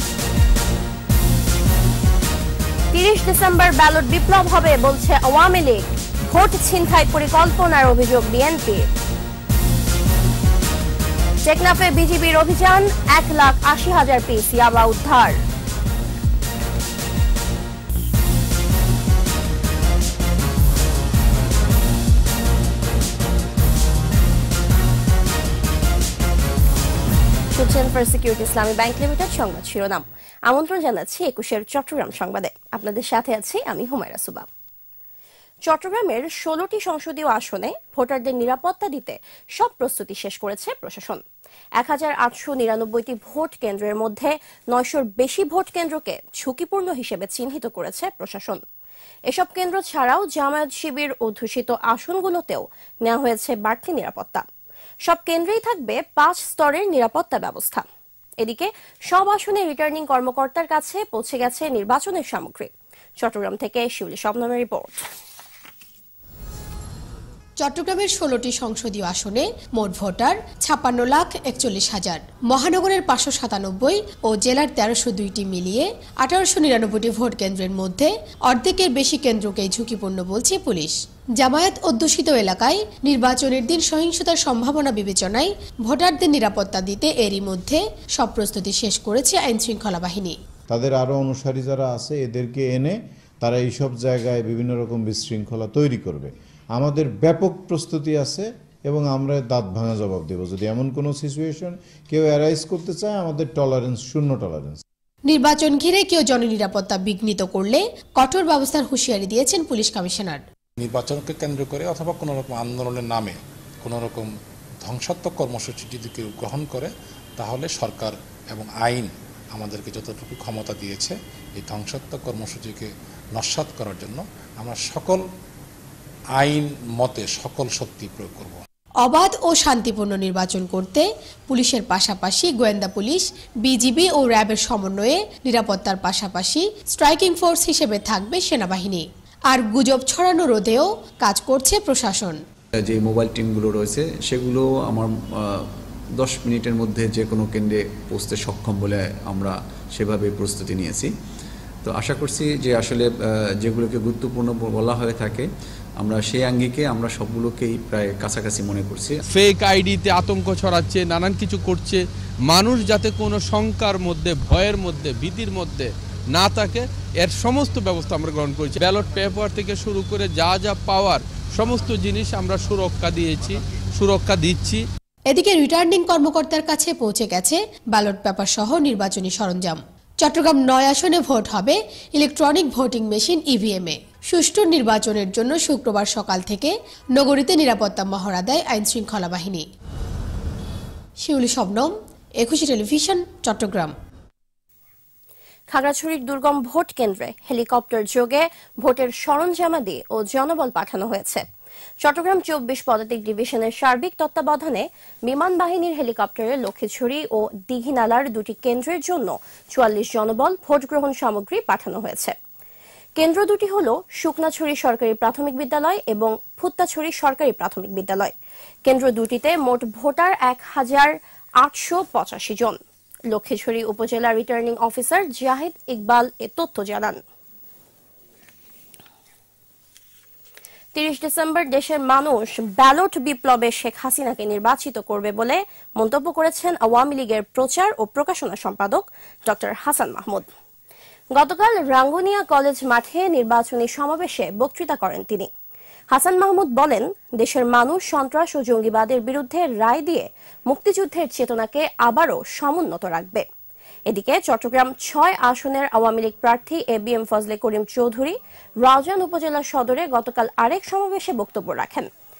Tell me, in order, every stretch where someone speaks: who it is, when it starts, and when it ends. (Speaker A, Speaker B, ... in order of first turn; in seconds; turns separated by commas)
Speaker A: 2.9-8.9, Speaker A: 11.4-15.4, Speaker A: 27.5-34.5, Speaker A: 35.6-41.2, Speaker A: 41.8-48.6, Speaker A: 49.3-54.4, Speaker A: 55.0-57.8, Speaker A: 58.4-65.0, Speaker B: 67.6-90.3, Speaker C: 90.7-104.8, Speaker B: 105.3-110.4, Speaker D: 110.8-114.3, Speaker D: 114.8-125.2, Speaker D: 126.3-128.6, Speaker B: 129.0-142.4, Speaker E: 142.8-151.1, Speaker E: 151.8-159.2, Speaker F: 159.3-174.8, Speaker B: 175.3-189.6, Speaker B: 191.2-193.9, Speaker A: 195.7-201.4, Speaker A: 202.0-212.3, Speaker A: 213.2-218.3, Speaker A: 218.8-222.8, Speaker A: 223.3-227.2, Speaker A: 230.9-240.5, Speaker A: 241.3-245.5, Speaker A: 246.1-253.4, Speaker A: 254.1-262.1